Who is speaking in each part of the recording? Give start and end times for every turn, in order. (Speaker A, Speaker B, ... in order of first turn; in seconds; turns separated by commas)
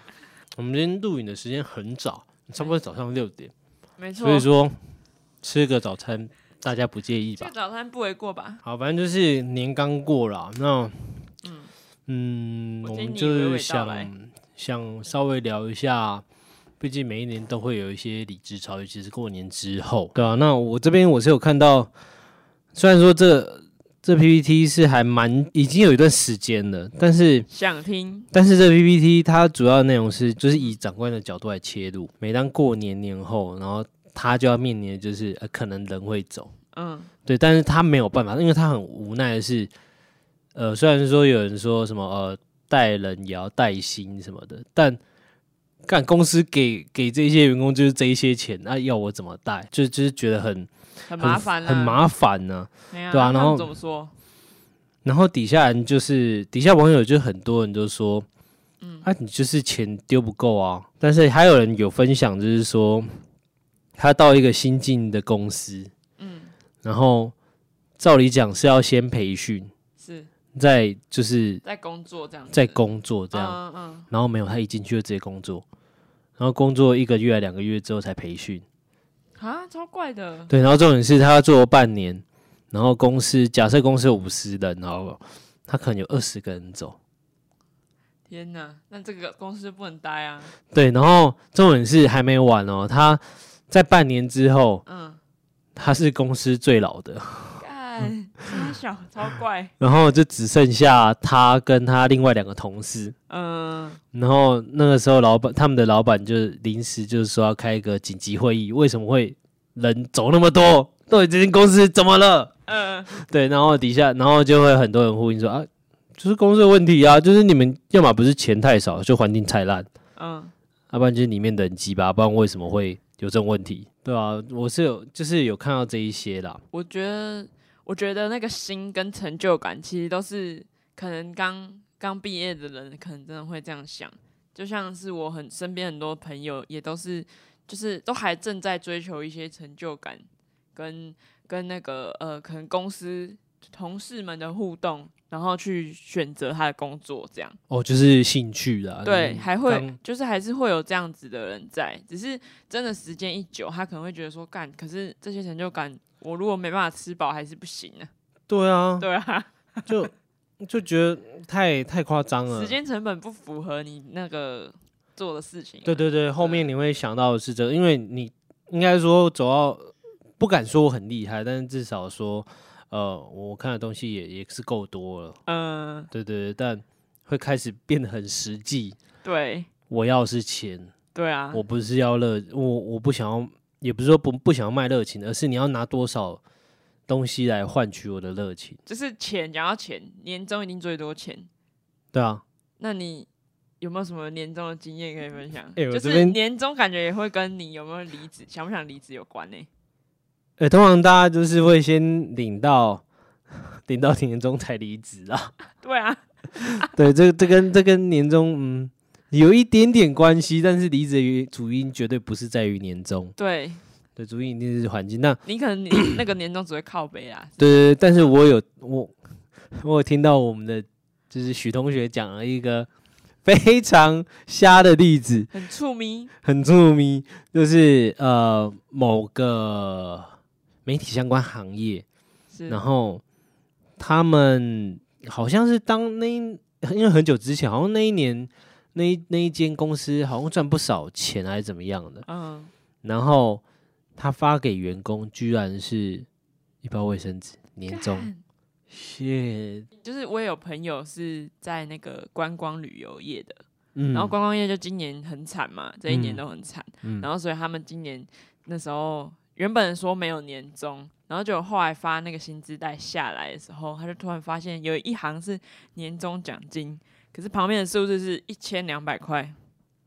Speaker A: 0.6-3.5, Speaker B: 4.0-4.5, Speaker A: 4.2-4.8, Speaker A: 5.4-7.5, Speaker B: 7.4-8.6, Speaker A: 8.6-11.3, Speaker B: 11.4-11.7, Speaker A: 12.1-16.2, Speaker B: 12.8-14.1, Speaker A: 16.8-21.9, Speaker A: 22.7-27.5, Speaker B: 27.5-28.3, Speaker A: 28.3-36.5, Speaker B: 36.7-37.1, Speaker A: 37.3-39.7, Speaker A: 40.5-45.0, Speaker A: 45.9-53.7, Speaker B: 51.1-52.0, Speaker B: 52.9-54.1, Speaker A: 55.0-58.3, Speaker B: 58.8-59.1, Speaker A: 59.0-63.1, Speaker A: 64.0-65.9, Speaker B: 66.2-66.5, Speaker A: 66.8-67.3, Speaker A: 68.0-69.7, Speaker B: 70.0-70.3, Speaker A: 70.5-71.6, Speaker B: 71.6-72.8, Speaker A: 72.5-73.6, Speaker B: 73.3-74.1, Speaker A: 74.1-75.6, Speaker A: 76.4-78.6, Speaker B: 79.4-80.5, Speaker A: 80.5-87.0, Speaker B: 88.3-90.5, Speaker A: 90.7-94.8, Speaker B: 94.9-95.2, Speaker A: 95.8-98.1, Speaker B: 97.6-99.7, Speaker A: 99.8-103.1, Speaker B: 103.3-104.0, Speaker A: 104.1-112.5, Speaker B: 112.7-113.1, Speaker A: 113.1-119.9, Speaker B: 120.2-120.5, Speaker A: 120.9-126.6, Speaker B: 126.7-147.6, Speaker A: 147.7-150.0, Speaker B: 149.1-158.1, Speaker A: 158.5-159.1, Speaker B: 159.0-160.1, Speaker A: 159.9-162.8, Speaker B: 162.5-166.6, Speaker A: 165.8-175.4, Speaker B: 175.5-176.1, Speaker A: 176.1-179.0, Speaker B: 179.2-179.7, Speaker A: 179.9-180.9, Speaker B: 181.2-181.6, Speaker A: 181.5-186.4, Speaker A: 187.1-188.8, Speaker B: 188.9-191.5, Speaker A: 192.1-192.4, Speaker B: 192.8-193.3, Speaker B: 193.8-199.7, Speaker A: 195.8-196.4, Speaker A: 200.6-205.5, Speaker B: 205.8-206.9, Speaker A: 206.8-213.3, Speaker B: 213.4-213.8, Speaker A: 214.2-215.4, Speaker B: 215.4-217.7, Speaker A: 217.6-219.2, Speaker A: 219.7-222.9, Speaker A: 223.4-225.5, Speaker B: 225.5-226.3, Speaker A: 226.4-230.3, Speaker A: 230.9-232.1, Speaker B: 232.5-232.8, Speaker A: 232.7-233.2, Speaker A: 234.0-242.3, Speaker B: 242.3-242.7, Speaker A: 243.0-243.6, Speaker A: 244.2-246.3, Speaker A: 246.8-248.3, Speaker B: 247.9-248.4, Speaker A: 248.9-249.9, Speaker B: 250.0-269.6, Speaker A: 254.0-254.3, Speaker A: 256.1-256.4, Speaker A: 257.0-257.3